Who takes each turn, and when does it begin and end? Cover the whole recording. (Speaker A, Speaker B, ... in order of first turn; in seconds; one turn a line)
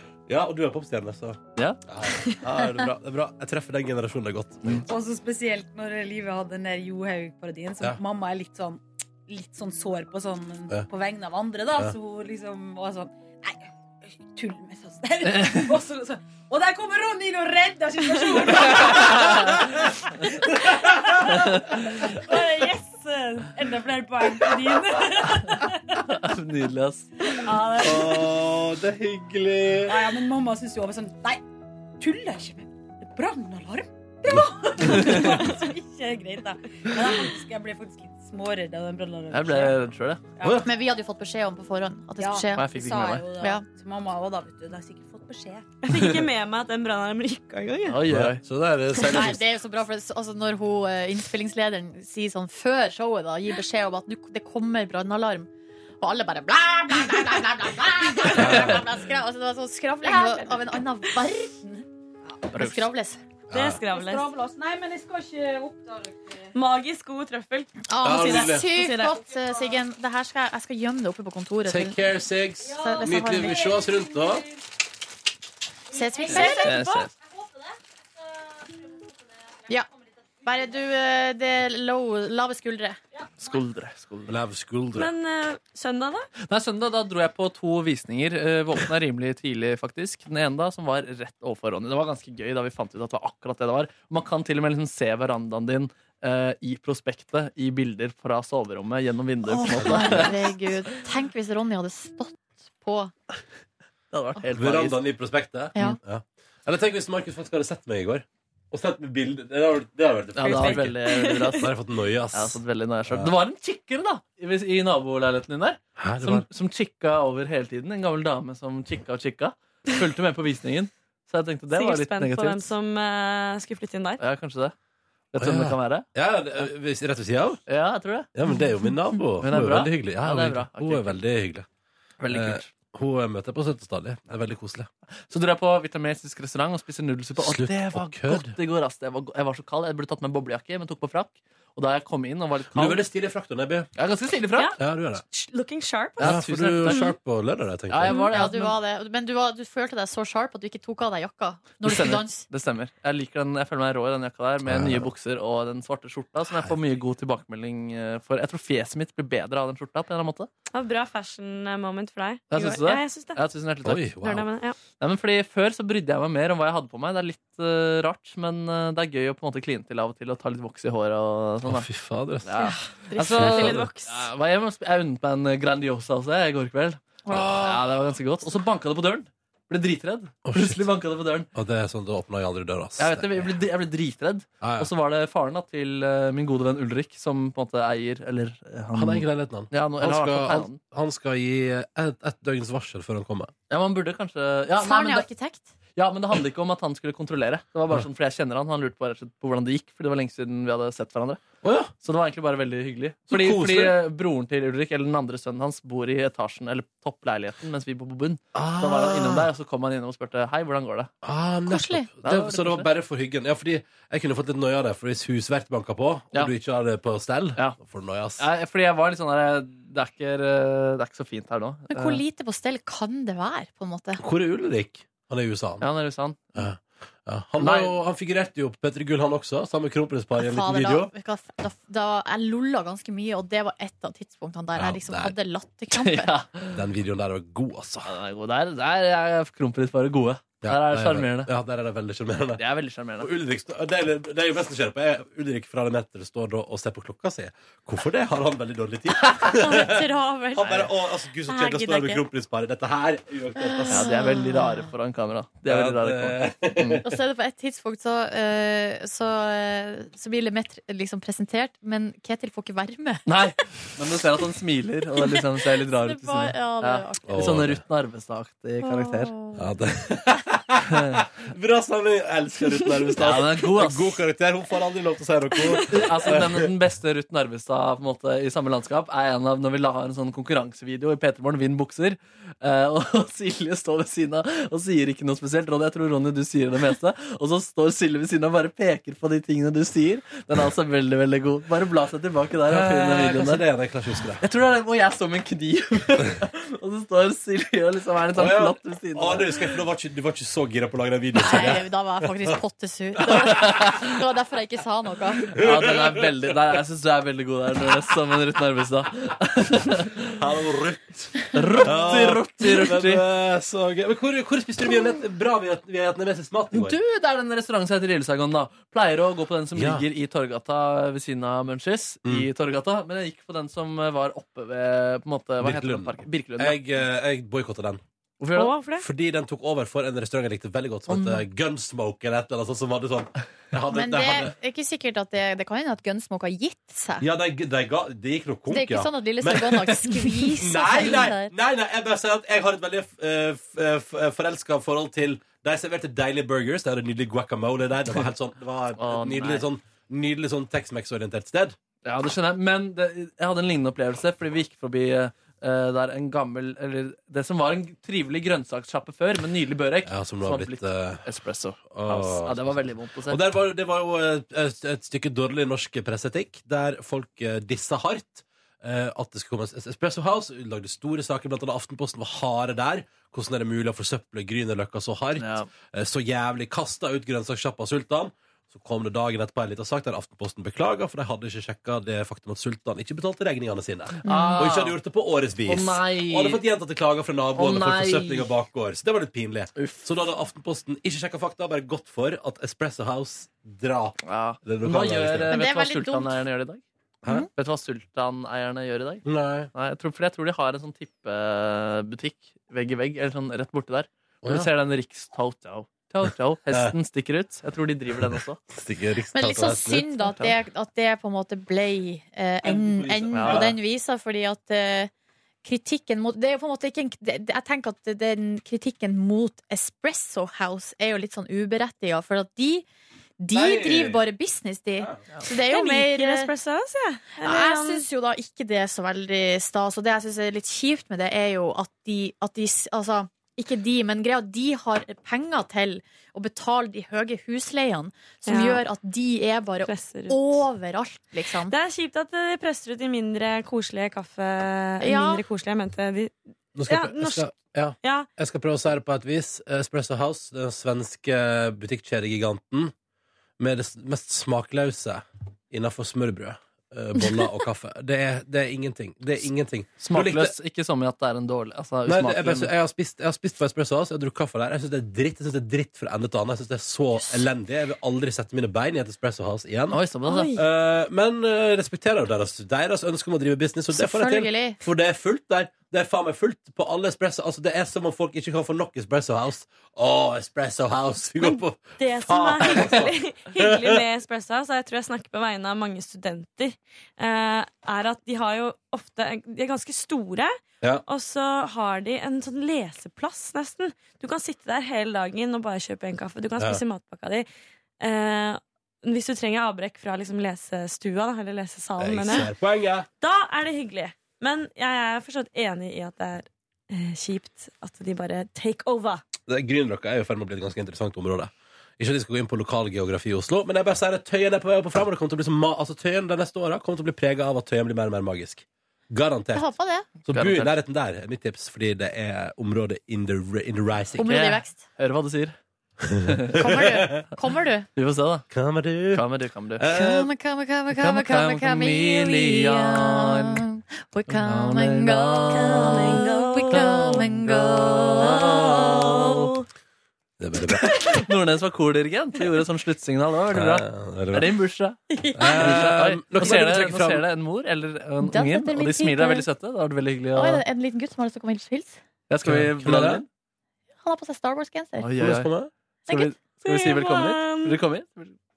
Speaker A: 0.3-4.8
Speaker B: 4.9-19.6
Speaker B: 20.4-26.0
Speaker C: 21.3-21.8
Speaker C: 26.1-27.1
Speaker B: 27.2-28.4
Speaker A: 27.8-30.0
Speaker B: 29.9-31.4
Speaker B: 32.0-40.6
Speaker C: 35.0-35.3
Speaker C: 39.3-40.2
Speaker A: 40.4-40.7
Speaker D: 40.6-42.7
Speaker B: 42.2-45.8
Speaker C: 42.5-43.3
Speaker D: 43.4-43.6
Speaker E: 45.8-48.0
Speaker C: 45.9-46.2
Speaker C: 47.9-48.4
Speaker A: 48.1-49.4
Speaker D: 49.1-55.5
Speaker D: 56.0-61.8
Speaker A: 58.4-58.8
Speaker B: 60.0-60.6
Speaker D: 62.5-63.2
Speaker C: 62.5-62.9
Speaker A: 63.5-63.8
Speaker E: 63.5-64.3
Speaker B: 63.8-66.5
Speaker E: 66.5-67.7
Speaker D: 67.9-72.0
Speaker A: 68.0-68.7
Speaker B: 68.3-69.8
Speaker A: 71.7-74.4
Speaker B: 72.6-74.6
Speaker D: 72.8-73.7
Speaker B: 75.9-79.9
Speaker D: 75.9-77.1
Speaker C: 76.3-77.1
Speaker D: 80.4-83.0
Speaker B: 83.2-83.6
Speaker C: 83.4-84.3
Speaker A: 84.3-85.1
Speaker E: 85.0-86.3
Speaker C: 86.4-100.4
Speaker D: 99.5-103.1
Speaker A: 99.8-100.3
Speaker C: 104.1-105.0
Speaker A: 104.5-113.3
Speaker C: 110.4-111.7
Speaker E: 110.4-111.7
Speaker C: 112.3-122.7
Speaker A: 116.0-116.5
Speaker E: 121.7-124.2
Speaker C: 124.2-124.7
Speaker C: 125.3-126.1
Speaker A: 125.4-127.6
Speaker C: 127.7-128.3
Speaker A: 128.3-131.7
Speaker C: 129.4-131.2
Speaker C: 132.2-132.7
Speaker A: 132.3-134.9
Speaker C: 135.2-143.0
Speaker A: 137.4-138.5
Speaker A: 142.7-143.9
Speaker C: 144.0-144.7
Speaker E: 144.6-147.1
Speaker A: 144.8-145.2
Speaker C: 146.2-147.1
Speaker A: 146.2-148.3
Speaker C: 147.9-148.7
Speaker E: 148.1-148.4
Speaker D: 148.3-152.4
Speaker C: 151.8-160.5
Speaker A: 154.7-155.1
Speaker A: 156.5-156.8
Speaker E: 160.7-163.4
Speaker C: 162.5-171.9
Speaker A: 163.8-164.5
Speaker E: 164.2-164.8
Speaker A: 171.7-172.7
Speaker C: 172.4-181.5
Speaker E: 172.6-174.3
Speaker A: 173.4-173.9
Speaker A: 177.3-177.7
Speaker A: 180.5-180.8
Speaker A: 181.5-183.6
Speaker C: 183.0-190.8
Speaker A: 184.6-184.9
Speaker A: 188.9-193.5
Speaker C: 193.7-195.3
Speaker D: 194.8-195.7
Speaker C: 196.0-201.4
Speaker A: 201.6-201.9
Speaker C: 202.0-211.1
Speaker A: 203.3-204.0
Speaker A: 208.6-209.5
Speaker A: 211.2-218.5
Speaker D: 211.7-212.1
Speaker C: 212.2-212.9
Speaker C: 218.4-222.2
Speaker D: 221.9-224.2
Speaker A: 224.2-225.9
Speaker C: 225.8-226.5
Speaker A: 226.6-231.1
Speaker C: 227.6-227.9
Speaker D: 230.4-236.3
Speaker A: 234.8-235.3
Speaker C: 235.9-236.8
Speaker A: 236.7-238.2
Speaker C: 238.1-241.5
Speaker A: 240.6-242.6
Speaker C: 242.6-243.3
Speaker A: 243.2-250.1
Speaker D: 249.5-250.8
Speaker A: 250.6-254.3
Speaker C: 250.6-250.9
Speaker D: 251.4-252.2
Speaker D: 253.6-254.8
Speaker C: 253.9-257.0
Speaker A: 255.7-257.2
Speaker D: 257.0-263.3
Speaker C: 263.3-269.4
Speaker D: 265.9-267.4
Speaker A: 267.3-267.8
Speaker D: 268.8-269.6
Speaker A: 269.6-276.7
Speaker C: 270.9-271.2
Speaker C: 273.2-274.2
Speaker C: 275.9-293.7
Speaker A: 292.7-294.4
Speaker C: 294.4-299.7
Speaker A: 298.3-302.6
Speaker D: 301.4-305.6
Speaker A: 303.3-303.6
Speaker C: 303.5-304.0
Speaker A: 305.6-306.5
Speaker C: 305.6-310.4
Speaker A: 310.4-317.0
Speaker C: 311.5-313.2
Speaker C: 316.7-326.8
Speaker A: 319.8-320.1
Speaker A: 325.6-328.0
Speaker C: 328.4-328.7
Speaker E: 328.5-329.1
Speaker A: 329.0-334.5
Speaker D: 331.1-331.4
Speaker D: 333.9-337.3
Speaker A: 337.2-351.8
Speaker D: 338.7-341.5
Speaker C: 349.0-349.7
Speaker C: 352.0-363.4
Speaker A: 360.1-361.2
Speaker A: 361.9-395.6
Speaker C: 375.4-375.7
Speaker C: 384.2-385.0
Speaker D: 384.2-384.6
Speaker C: 385.7-386.6
Speaker C: 387.6-388.5
Speaker C: 389.8-390.0
Speaker C: 394.2-396.8
Speaker D: 395.5-396.4
Speaker C: 397.5-408.6
Speaker A: 399.3-399.7
Speaker A: 404.4-404.7
Speaker A: 408.3-410.5
Speaker D: 409.3-415.1
Speaker A: 412.6-413.8
Speaker C: 413.4-413.7
Speaker D: 415.6-422.9
Speaker D: 423.4-426.5
Speaker A: 423.5-424.2
Speaker E: 425.6-428.0
Speaker D: 427.4-441.7
Speaker E: 438.4-438.8
Speaker E: 439.8-440.7
Speaker E: 441.7-446.3
Speaker D: 445.0-445.4
Speaker A: 446.8-452.9
Speaker E: 446.9-447.5
Speaker E: 448.0-448.3
Speaker A: 453.6-460.5
Speaker C: 460.0-462.7
Speaker A: 462.1-470.0
Speaker C: 469.9-470.5
Speaker E: 470.3-470.6
Speaker A: 470.5-484.0
Speaker D: 473.9-474.8
Speaker E: 481.4-490.5
Speaker E: 491.1-497.5
Speaker E: 498.0-502.5
Speaker A: 502.0-503.1
Speaker E: 503.2-509.2
Speaker A: 509.5-524.4
Speaker D: 519.5-520.1
Speaker C: 520.3-520.8
Speaker D: 524.2-524.8
Speaker C: 524.3-525.6
Speaker A: 526.0-527.2
Speaker C: 526.3-526.6
Speaker D: 526.5-527.9
Speaker C: 528.0-528.5
Speaker A: 528.5-529.2
Speaker C: 529.1-529.9
Speaker A: 529.8-530.3
Speaker D: 529.9-539.0
Speaker C: 530.9-533.6
Speaker C: 534.3-539.5
Speaker E: 535.5-537.3
Speaker E: 538.2-539.7
Speaker A: 540.4-541.2
Speaker C: 541.0-550.6
Speaker A: 543.5-544.6
Speaker D: 545.1-545.8
Speaker A: 545.4-547.3
Speaker D: 548.2-549.5
Speaker D: 550.4-552.0
Speaker C: 552.3-553.3
Speaker A: 552.4-553.2
Speaker D: 554.0-555.1
Speaker C: 555.0-555.5
Speaker A: 555.2-555.7
Speaker D: 556.1-556.3
Speaker C: 556.1-558.3
Speaker E: 556.6-557.8